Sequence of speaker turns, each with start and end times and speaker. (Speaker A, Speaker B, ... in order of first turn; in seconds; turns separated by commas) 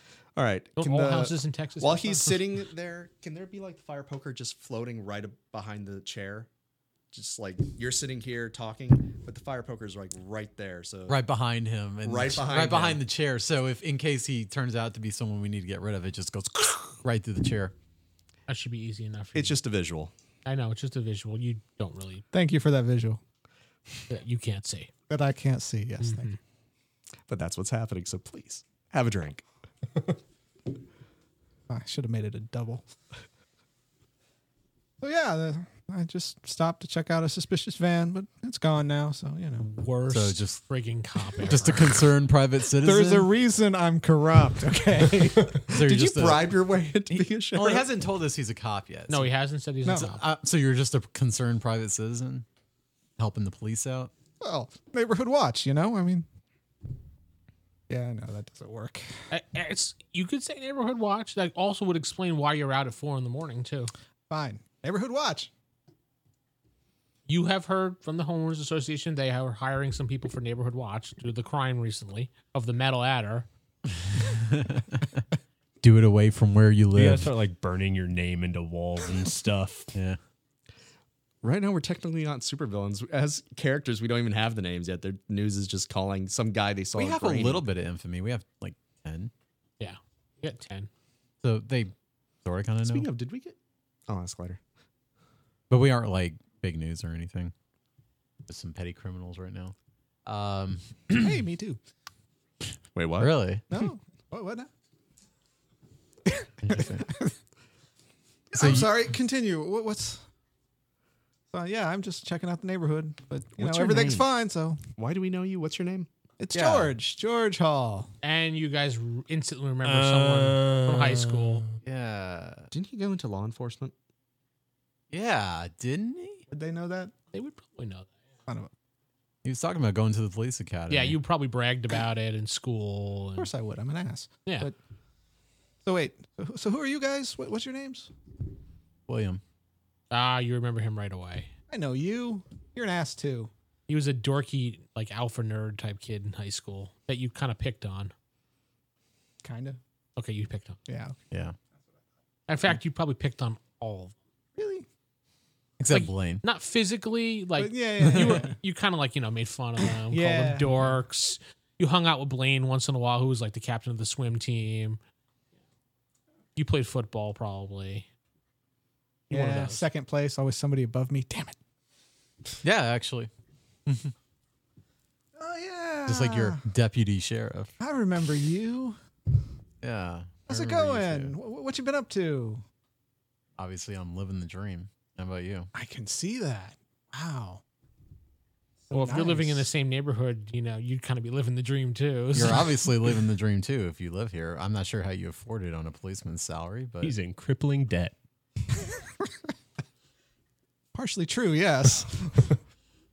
Speaker A: 0.4-6.5, Speaker B: 0.8-2.4, Speaker A: 7.1-11.2, Speaker C: 11.1-17.7, Speaker A: 12.0-13.0, Speaker B: 18.5-19.6, Speaker A: 19.4-20.1, Speaker B: 20.4-22.2, Speaker D: 22.3-23.2, Speaker B: 24.1-24.9, Speaker D: 25.1-26.3, Speaker B: 26.0-26.4, Speaker A: 27.3-29.4, Speaker D: 31.7-32.9, Speaker D: 35.0-39.7, Speaker B: 39.6-42.0, Speaker C: 40.1-40.6, Speaker C: 41.5-43.3, Speaker D: 42.8-45.7, Speaker A: 45.7-47.9, Speaker C: 45.7-46.6, Speaker C: 47.1-49.3, Speaker B: 49.1-50.2, Speaker C: 49.9-52.5, Speaker C: 53.2-54.1, Speaker D: 54.4-56.3, Speaker D: 57.9-59.1, Speaker B: 59.3-63.9, Speaker D: 64.3-65.5, Speaker B: 67.3-73.5, Speaker C: 74.1-75.2, Speaker C: 75.8-77.3, Speaker E: 77.0-79.9, Speaker C: 79.9-80.2, Speaker A: 81.4-87.7, Speaker C: 87.0-89.3, Speaker B: 89.8-90.9, Speaker C: 91.4-91.9, Speaker C: 92.5-93.1, Speaker A: 92.8-93.6, Speaker A: 94.1-94.6, Speaker C: 95.7-97.5, Speaker C: 98.5-99.8, Speaker C: 100.3-100.9, Speaker D: 101.1-101.8, Speaker A: 103.0-103.4, Speaker C: 103.2-103.7, Speaker D: 103.7-104.7, Speaker D: 106.3-107.3, Speaker C: 106.6-107.1, Speaker D: 108.5-110.2, Speaker C: 108.6-109.0, Speaker D: 111.5-114.8, Speaker A: 113.6-114.3, Speaker A: 115.0-116.1, Speaker D: 116.4-118.1, Speaker C: 116.5-116.9, Speaker B: 118.2-121.6, Speaker E: 119.8-121.8, Speaker C: 121.8-122.7, Speaker A: 122.7-123.9, Speaker C: 125.1-126.4, Speaker D: 126.5-127.1, Speaker B: 127.3-128.1, Speaker C: 129.4-131.2, Speaker B: 130.9-133.5, Speaker D: 133.4-134.8, Speaker D: 135.8-138.1, Speaker C: 139.1-139.4, Speaker B: 140.1-141.5, Speaker D: 141.7-143.5, Speaker B: 143.9-148.1, Speaker D: 149.4-149.8, Speaker B: 150.2-150.8, Speaker D: 150.9-151.2, Speaker C: 151.3-151.6, Speaker B: 152.5-154.2, Speaker D: 154.6-154.9, Speaker C: 155.8-156.4, Speaker B: 155.9-165.0, Speaker D: 157.6-158.6, Speaker C: 158.0-158.4, Speaker D: 160.1-160.9, Speaker B: 166.6-168.1, Speaker D: 169.3-171.6, Speaker B: 169.3-169.8, Speaker C: 172.6-173.3, Speaker C: 173.9-174.1, Speaker D: 175.4-176.6, Speaker C: 176.1-177.7, Speaker D: 177.8-179.0, Speaker C: 179.8-181.3, Speaker D: 180.5-182.6, Speaker C: 183.6-185.7, Speaker D: 185.7-187.6, Speaker D: 188.9-189.7, Speaker B: 188.9-192.8, Speaker C: 192.3-197.2, Speaker E: 197.0-198.2, Speaker D: 200.9-202.6